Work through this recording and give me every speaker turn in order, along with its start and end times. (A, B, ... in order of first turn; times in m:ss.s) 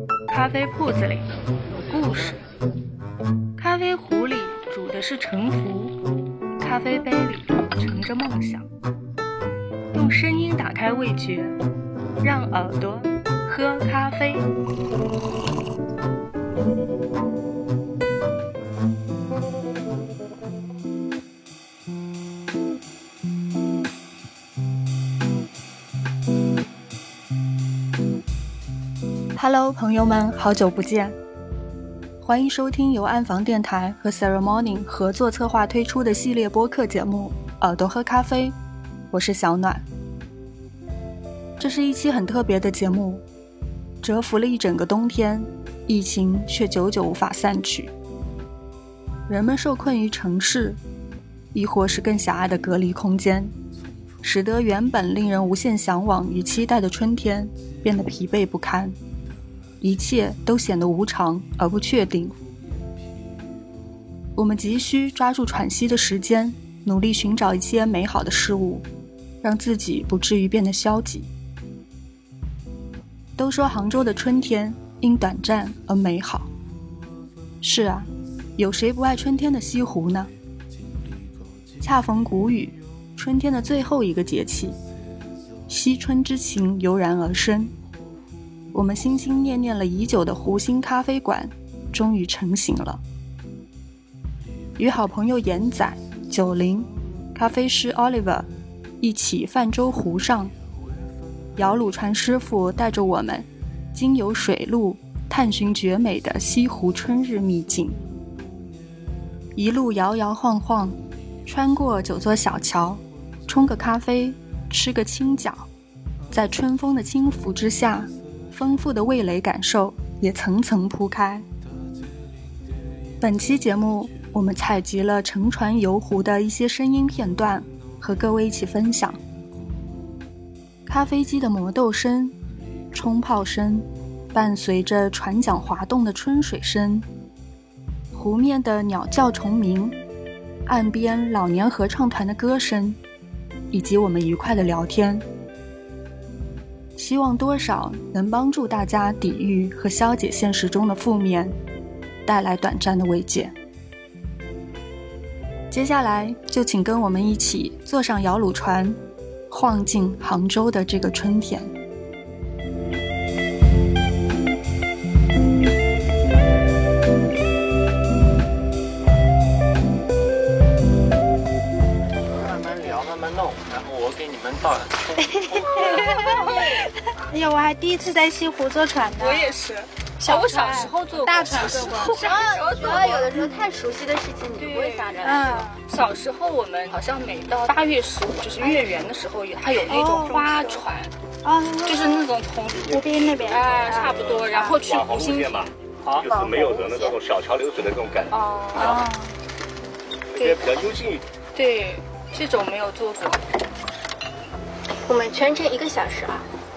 0:00.3-0:02.4 A
0:03.6-0:06.0 A
0:06.6-0:08.7 A
0:09.9-0:11.6 A
0:12.2-0:14.5 A
0:29.3-0:31.2 A
0:32.2-0:38.6 A
0:39.1-0:39.8 A
0:41.6-0:43.2 A
0:44.0-0:47.9 A
0:49.3-0:50.8 A
0:51.5-0:53.5 A
0:54.2-0:59.0 A
0:59.8-1:02.4 A
1:04.3-1:08.9 A
1:09.4-1:11.3 A
1:13.4-1:16.5 A
1:17.6-1:20.3 A
1:21.8-1:24.8 A
1:25.7-1:27.7 A
1:28.7-1:33.0 A
1:34.8-1:38.5 A
1:39.0-1:40.5 A
1:41.6-1:48.0 A
1:49.5-1:55.7 A
1:56.3-2:01.4 A
2:03.2-2:09.2 A
2:10.8-2:12.4 A
2:12.9-2:17.0 A
2:18.1-2:20.0 A
2:20.6-2:23.0 A
2:23.7-2:25.2 A
2:27.0-2:31.6 A
2:32.2-2:33.5 A
2:35.7-2:39.0 A
2:39.5-2:41.7 A
2:52.2-2:55.9 B
2:55.4-2:56.8 C
2:55.8-2:56.6 D
2:57.3-2:59.6 D
2:59.2-3:03.4 E
3:00.2-3:02.2 D
3:02.1-3:05.7 C
3:04.6-3:05.2 E
3:05.2-3:05.8 D
3:05.8-3:11.1 E
3:09.9-3:10.7 D
3:11.4-3:12.2 D
3:11.8-3:15.7 E
3:12.8-3:18.4 F
3:12.9-3:14.8 D
3:16.2-3:17.2 C
3:18.3-3:19.0 E
3:18.8-3:19.3 D
3:20.3-3:21.3 F
3:20.4-3:20.7 E
3:21.5-3:23.4 E
3:25.0-3:26.5 C